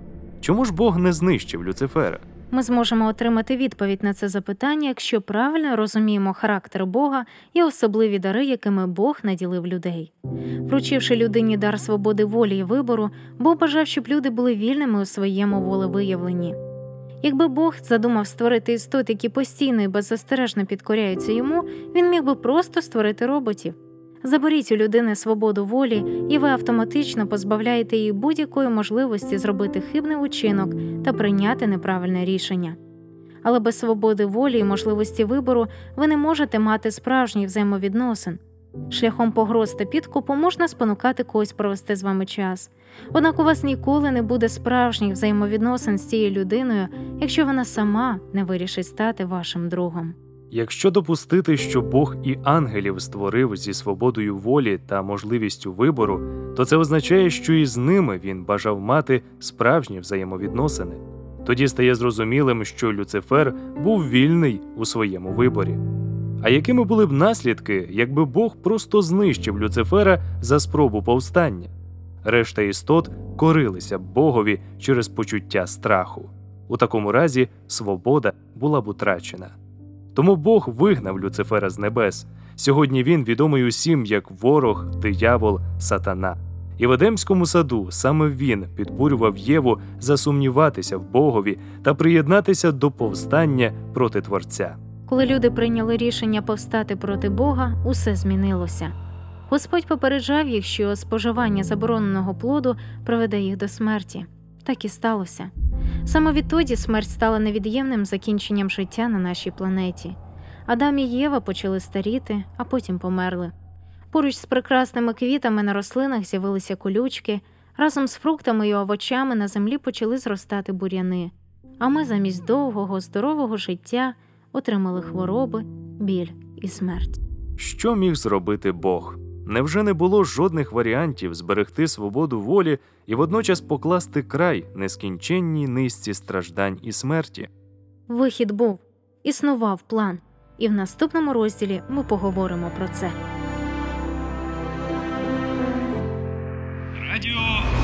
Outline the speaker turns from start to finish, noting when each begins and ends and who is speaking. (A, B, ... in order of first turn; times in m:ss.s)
0:00.4-0:02.2 A
0:02.5-0:10.1 B
0:10.6-0:16.6 B
0:17.2-0:32.8 B
0:33.4-0:50.1 B
0:50.5-1:05.8 A
1:06.4-1:11.7 A
1:12.2-1:19.5 A
1:20.1-1:34.8 A
1:35.1-1:38.9 B
1:39.5-1:45.5 B
1:46.0-1:53.5 B
1:54.1-2:07.2 B
2:07.6-2:17.5 A
2:18.1-2:23.2 B
2:27.1-2:27.6 A